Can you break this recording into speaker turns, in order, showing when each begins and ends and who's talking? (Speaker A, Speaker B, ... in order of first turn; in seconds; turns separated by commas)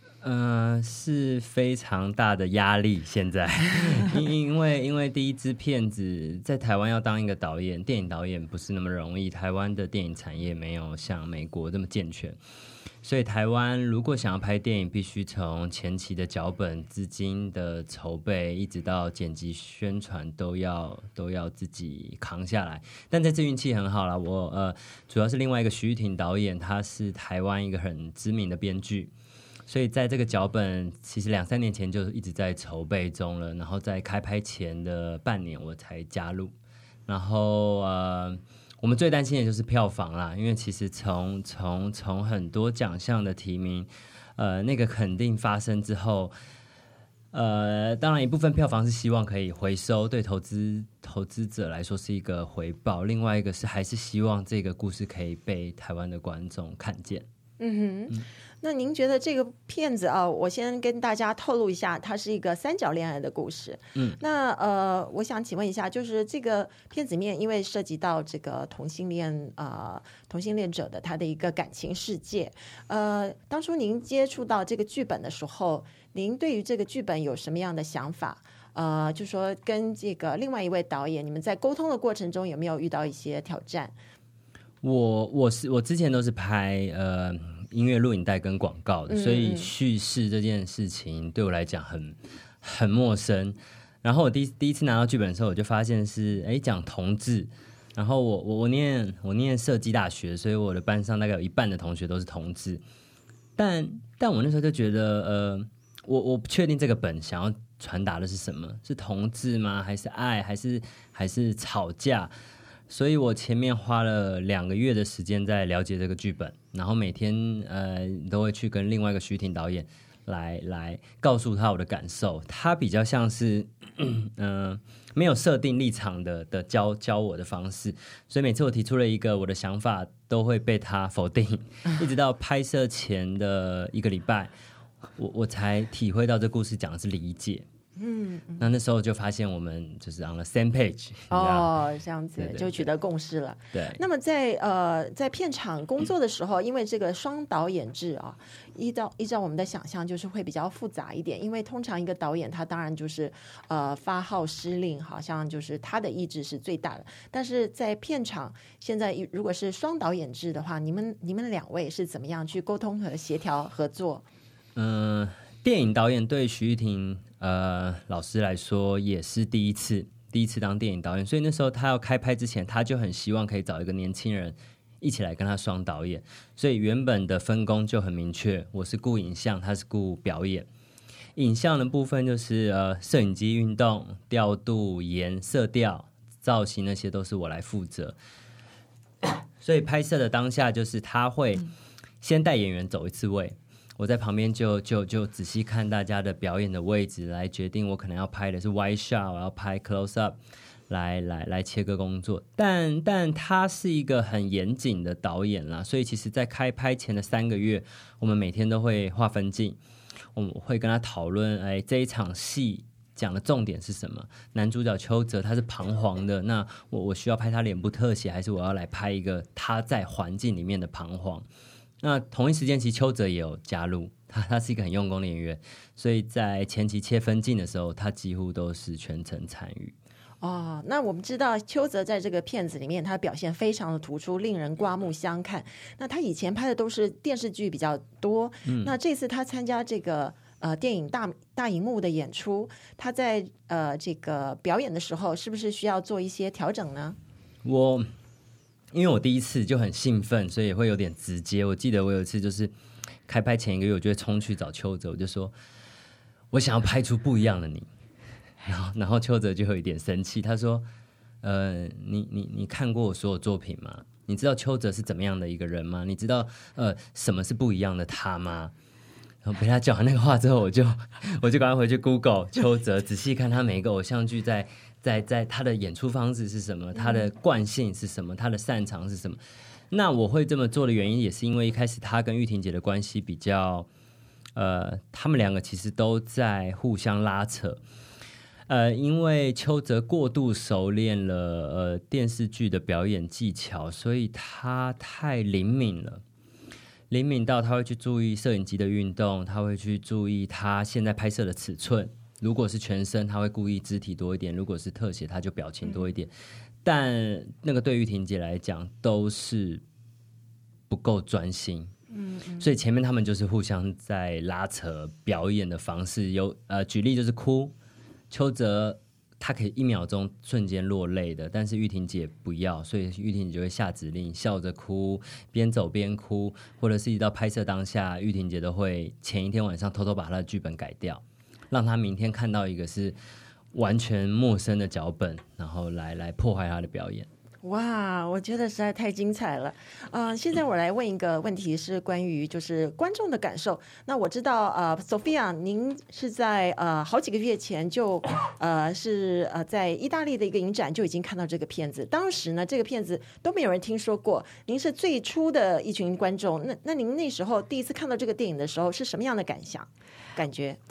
Speaker A: 0.2-12.4, Speaker A: 13.0-29.1, Speaker A: 29.7-36.5, Speaker A: 37.1-46.3, Speaker A: 47.3-57.2, Speaker B: 57.6-83.9, Speaker A: 84.8-102.8, Speaker B: 89.1-89.7, Speaker A: 103.6-112.3, Speaker A: 112.9-134.5, Speaker A: 135.2-137.7, Speaker B: 138.0-138.7, Speaker A: 138.6-141.7, Speaker B: 141.3-164.2, Speaker A: 142.4-142.9, Speaker A: 143.7-144.0, Speaker A: 164.8-180.7, Speaker A: 181.3-188.2, Speaker A: 189.6-191.7, Speaker A: 192.2-200.4, Speaker A: 200.9-209.8, Speaker A: 210.3-221.4, Speaker A: 222.0-229.9, Speaker B: 230.4-247.2, Speaker A: 238.7-238.9, Speaker A: 247.6-248.1, Speaker A: 248.9-252.7, Speaker A: 253.3-255.5, Speaker A: 256.5-257.9, Speaker A: 258.6-260.8, Speaker A: 261.4-268.7, Speaker A: 269.4-279.4, Speaker A: 279.9-283.9, Speaker A: 284.6-287.8, Speaker A: 288.7-296.2, Speaker A: 297.1-306.3, Speaker A: 306.8-309.8, Speaker A: 310.9-311.9, Speaker B: 312.1-312.6, Speaker A: 312.6-317.7, Speaker A: 318.3-333.1, Speaker A: 333.7-337.3, Speaker B: 337.6-360.8